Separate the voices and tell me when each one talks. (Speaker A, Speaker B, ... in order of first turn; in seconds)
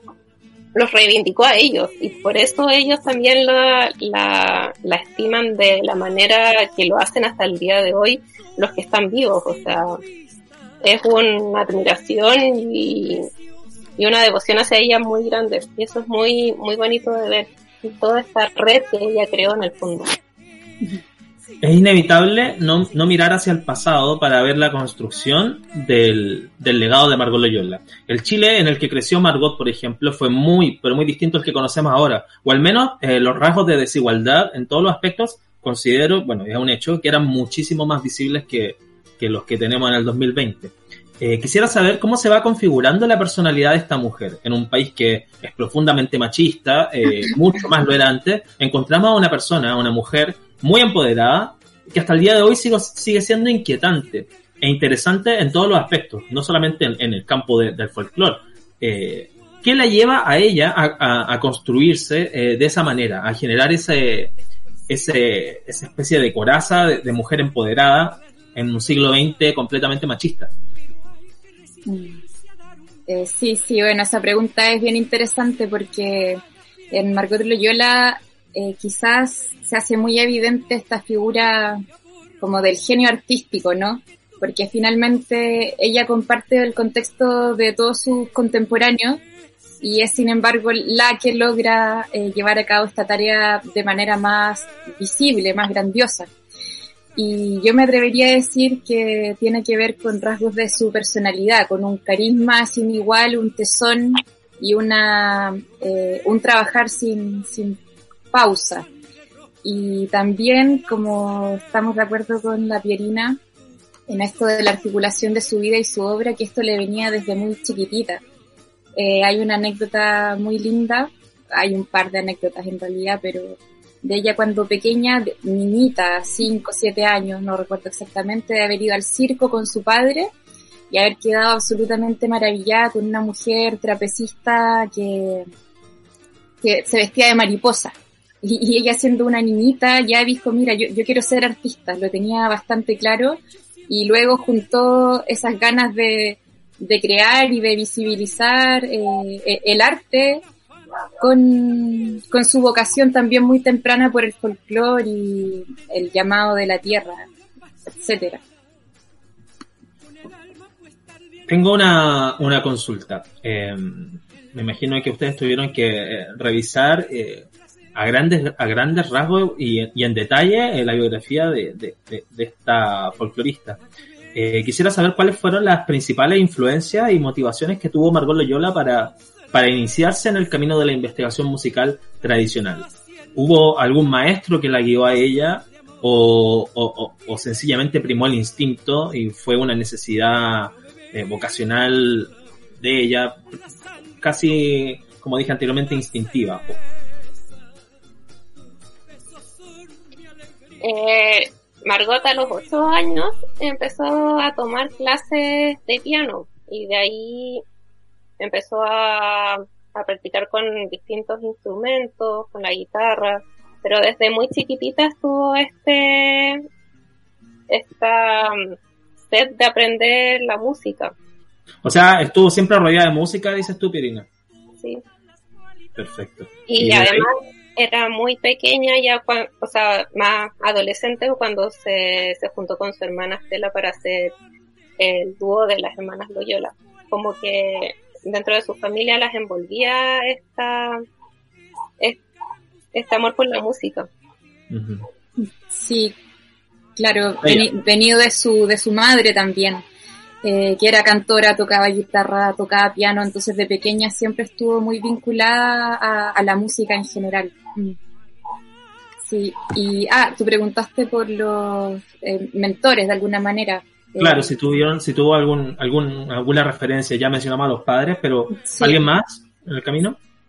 Speaker A: 0.7-10.0, 10.8-13.3, 14.0-20.2, 200.8-207.6, 208.4-216.7, 217.7-218.8, 219.3-221.1, 226.7-234.3, 235.0-241.0, 242.9-244.1
Speaker B: 21.6-64.3, 64.9-70.5, 161.5-173.8, 174.3-193.3, 194.2-196.8, 221.8-224.3, 225.9-227.3, 244.7-245.0, 264.2-270.2
Speaker C: 71.8-72.2, 73.1-81.8, 82.4-89.2, 89.8-96.3, 97.2-107.8, 108.3-108.9, 109.6-113.4, 114.1-118.2, 119.0-130.3, 130.9-135.5, 136.6-150.4, 151.2-157.3, 157.9-158.4, 245.7-246.1, 247.0-249.8, 250.4-258.0, 259.2-264.5, 268.6-269.0